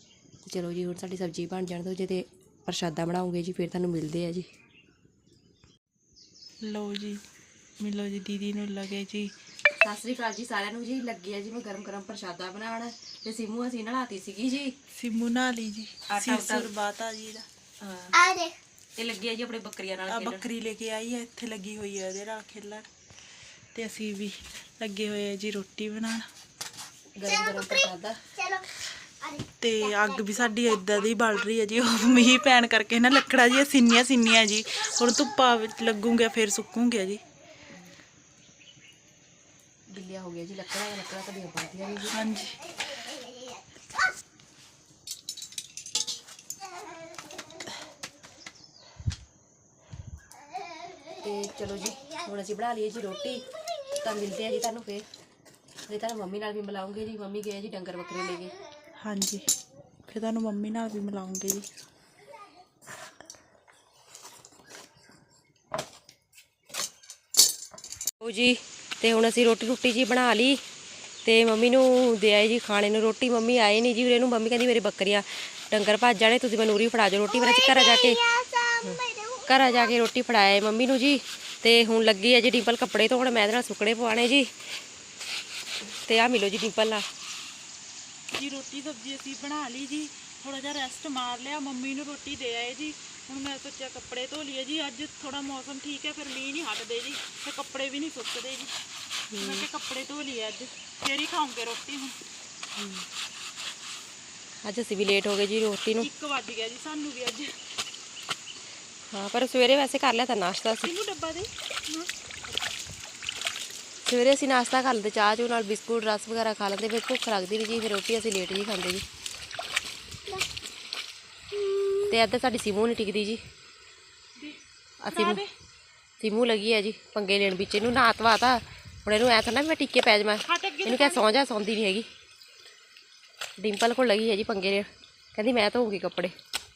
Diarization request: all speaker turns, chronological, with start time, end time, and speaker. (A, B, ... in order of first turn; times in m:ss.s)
0:00.5-0:04.5 A
0:06.6-0:07.2 B
0:07.8-0:09.3 B
0:09.8-0:14.8 A
0:14.9-0:17.5 B
0:16.1-0:16.7 A
0:17.8-0:18.2 A
0:18.1-0:18.6 C
0:19.0-0:20.5 A
0:20.1-0:22.9 B
0:23.7-0:26.3 B
0:27.2-0:28.2 A
0:27.2-0:28.7 C
0:29.2-0:30.4 C
0:29.6-0:37.2 B
0:39.9-0:42.2 A
0:42.1-0:42.6 B
0:43.0-0:43.6 C
0:46.8-0:47.7 C
0:51.2-0:55.1 A
0:55.9-0:58.6 A
0:59.0-0:59.5 B
1:00.1-1:01.7 B
1:08.2-1:10.6 A
1:11.2-1:18.2 A
1:17.3-1:19.9 C
1:18.8-1:24.7 A
1:25.8-1:27.0 A
1:28.3-1:38.7 B
1:39.3-1:39.7 A
1:39.4-1:42.2 B
1:42.8-1:43.1 A
1:44.6-1:46.1 A
1:46.0-1:47.6 B
1:49.1-1:50.9 A
1:50.8-1:52.1 B
1:54.0-1:59.0 A
2:01.5-2:02.1 C
2:02.1-2:03.4 A
2:04.4-2:05.5 B
2:05.0-2:05.4 A
2:06.2-2:12.1 A
2:10.5-2:11.2 B
2:13.6-2:16.3 A